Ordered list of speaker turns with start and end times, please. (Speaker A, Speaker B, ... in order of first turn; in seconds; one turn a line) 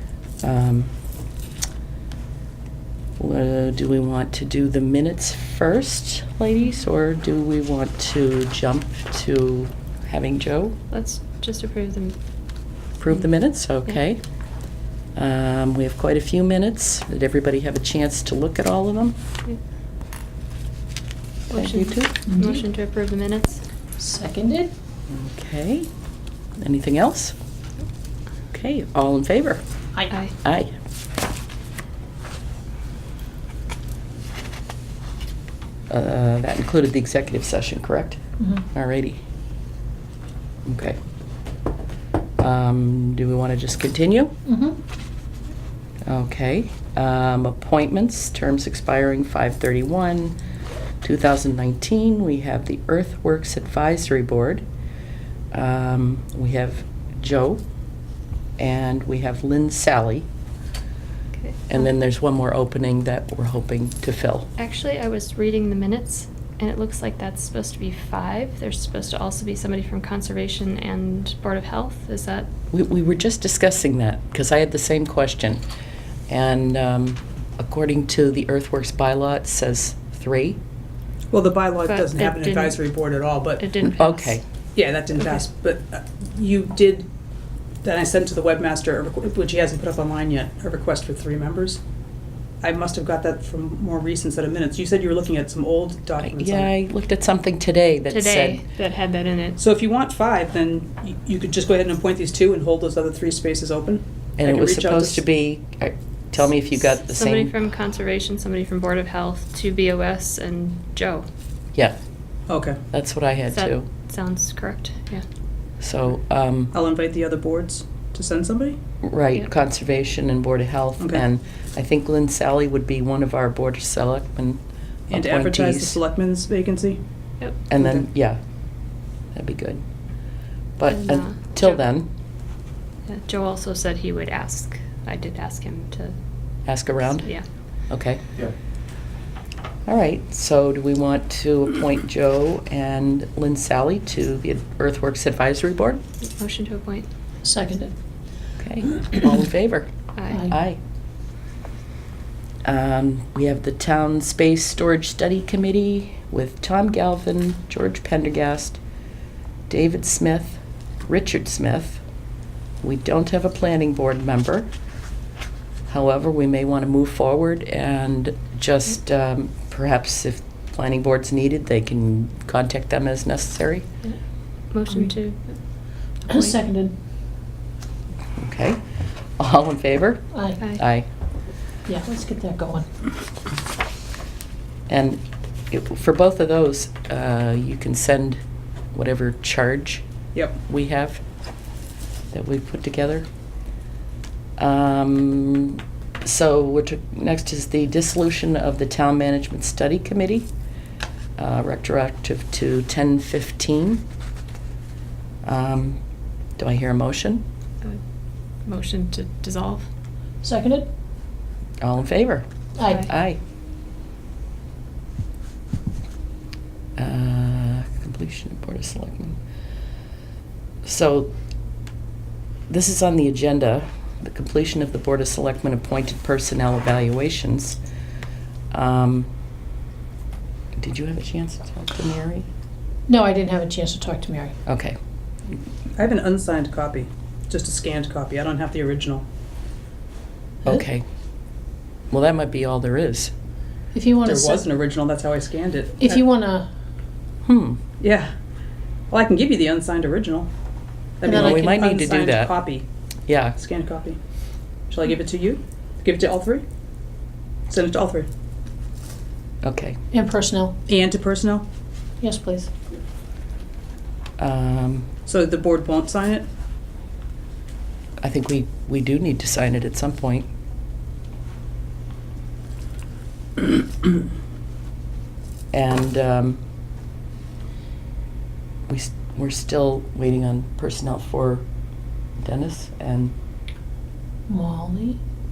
Speaker A: 0.4-0.9
Speaker A: 3.2-10.8
Speaker B: 10.9-12.2
Speaker A: 13.0-14.2
Speaker A: 15.2-19.2
Speaker B: 21.5-23.6
Speaker A: 21.5-22.1
Speaker C: 22.3-22.6
Speaker C: 24.0-24.7
Speaker A: 25.1-25.9
Speaker A: 26.6-27.4
Speaker A: 28.5-29.6
Speaker A: 30.4-30.7
Speaker A: 35.9-38.2
Speaker C: 38.4-38.6
Speaker A: 38.7-39.2
Speaker A: 40.6-41.0
Speaker A: 42.4-44.3
Speaker C: 44.5-44.8
Speaker A: 46.1-50.4
Speaker A: 51.0-54.6
Speaker A: 55.5-57.6
Speaker A: 58.6-60.3
Speaker B: 61.4-61.8
Speaker A: 61.7-64.5
Speaker B: 64.6-72.5
Speaker A: 72.7-75.6
Speaker A: 76.3-80.6
Speaker D: 81.3-83.6
Speaker B: 81.9-82.8
Speaker B: 83.6-84.4
Speaker A: 83.8-84.4
Speaker D: 84.8-87.1
Speaker D: 87.8-91.8
Speaker D: 92.6-96.7
Speaker A: 96.2-98.6
Speaker B: 98.1-99.6
Speaker D: 99.6-105.2
Speaker A: 104.4-107.5
Speaker B: 106.8-111.3
Speaker D: 112.5-112.8
Speaker A: 112.9-113.9
Speaker B: 113.5-115.2
Speaker A: 115.8-116.8
Speaker D: 116.7-118.8
Speaker A: 119.0-126.0
Speaker D: 125.1-127.0
Speaker A: 127.7-128.4
Speaker D: 127.8-128.1
Speaker A: 129.3-129.8
Speaker A: 130.8-132.1
Speaker B: 130.9-131.8
Speaker B: 133.1-136.2
Speaker A: 136.7-137.3
Speaker A: 137.9-138.2
Speaker A: 139.9-146.0
Speaker B: 146.4-147.1
Speaker C: 147.4-147.9
Speaker A: 148.6-150.8
Speaker B: 150.2-150.4
Speaker C: 150.3-150.6
Speaker A: 152.6-158.8
Speaker A: 159.7-162.0
Speaker A: 162.8-164.7
Speaker A: 165.9-173.9
Speaker B: 174.7-176.5
Speaker C: 176.3-176.9
Speaker A: 178.4-178.8
Speaker A: 179.4-181.1
Speaker C: 180.3-180.6
Speaker C: 181.9-182.9
Speaker A: 184.9-188.4
Speaker A: 188.9-190.0
Speaker A: 190.7-191.2
Speaker A: 192.3-193.3
Speaker A: 194.6-200.5
Speaker A: 201.4-204.1
Speaker A: 205.4-206.0
Speaker A: 206.6-207.4
Speaker B: 208.6-209.9
Speaker C: 210.4-210.9
Speaker A: 211.8-213.4
Speaker C: 212.8-213.1
Speaker A: 217.0-219.4
Speaker A: 220.8-221.3
Speaker A: 222.7-227.8
Speaker A: 228.7-229.3
Speaker A: 230.8-232.5
Speaker C: 233.1-234.6
Speaker A: 234.7-235.0
Speaker D: 236.0-239.2
Speaker A: 240.7-241.1
Speaker A: 242.1-243.3
Speaker C: 243.9-244.7
Speaker D: 244.2-246.2
Speaker C: 246.0-246.7
Speaker A: 247.4-247.8
Speaker D: 248.0-248.3
Speaker D: 249.1-250.5
Speaker D: 251.2-252.9
Speaker C: 251.2-251.8
Speaker A: 251.3-252.6
Speaker A: 253.3-253.6
Speaker D: 253.6-254.2
Speaker D: 254.9-256.6
Speaker D: 257.7-258.3
Speaker A: 259.6-260.0
Speaker C: 260.1-260.8
Speaker D: 260.9-261.6
Speaker C: 262.2-262.7
Speaker A: 264.4-265.1
Speaker D: 265.3-266.5
Speaker A: 268.2-270.5
Speaker A: 275.7-276.6
Speaker A: 278.9-281.7
Speaker A: 282.4-283.3
Speaker C: 284.5-285.2